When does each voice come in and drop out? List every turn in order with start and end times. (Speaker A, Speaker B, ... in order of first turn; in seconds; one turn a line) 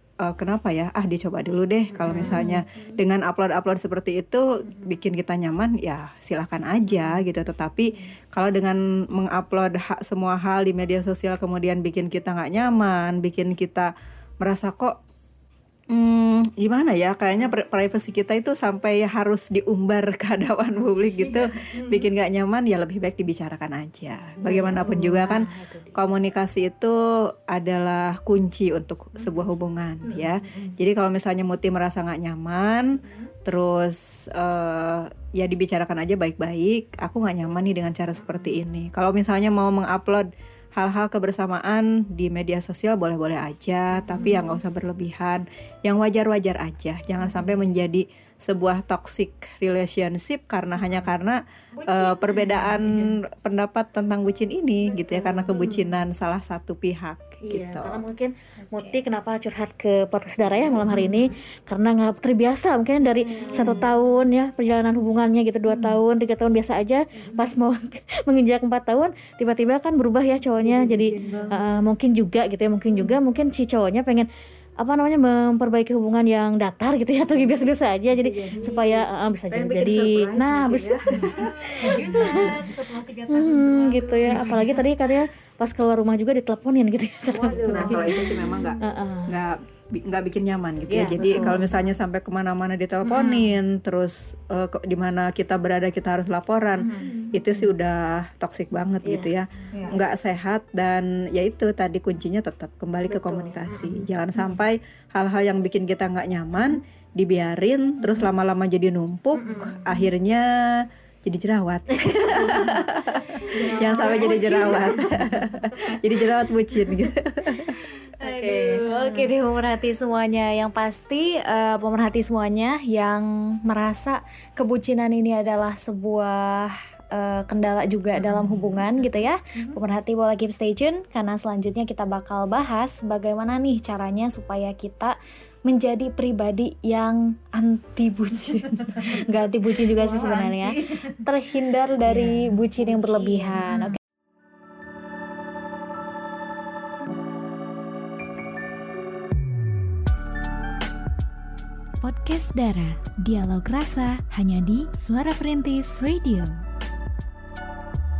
Speaker A: 0.2-15.0
Speaker B: 1.9-2.6
Speaker C: 2.1-2.5
Speaker A: 15.9-27.0
Speaker C: 24.4-24.9
Speaker A: 27.5-58.0
Speaker B: 52.4-53.1
Speaker B: 55.5-55.8
Speaker C: 55.5-55.8
Speaker B: 57.5-74.3
Speaker C: 63.4-63.9
Speaker A: 63.6-63.9
Speaker C: 70.6-71.7
Speaker D: 71.2-71.5
Speaker B: 74.8-81.3
Speaker C: 78.1-78.8
Speaker A: 78.7-82.2
Speaker C: 81.2-83.6
Speaker D: 81.3-84.9
Speaker B: 81.8-82.5
Speaker B: 83.3-89.3
Speaker C: 84.2-84.8
Speaker D: 87.3-88.3
Speaker C: 87.4-88.8
Speaker A: 87.7-117.8
Speaker B: 90.9-91.6
Speaker C: 91.3-91.7
Speaker B: 93.0-93.5
Speaker B: 96.8-97.1
Speaker C: 97.0-97.3
Speaker B: 99.0-99.9
Speaker B: 103.1-104.0
Speaker B: 109.3-109.8
Speaker B: 112.1-112.9
Speaker B: 113.4-115.6
Speaker C: 113.5-115.1
Speaker C: 118.2-144.0
Speaker B: 118.2-119.3
Speaker B: 139.7-141.2
Speaker B: 142.1-143.8
Speaker D: 152.0-156.6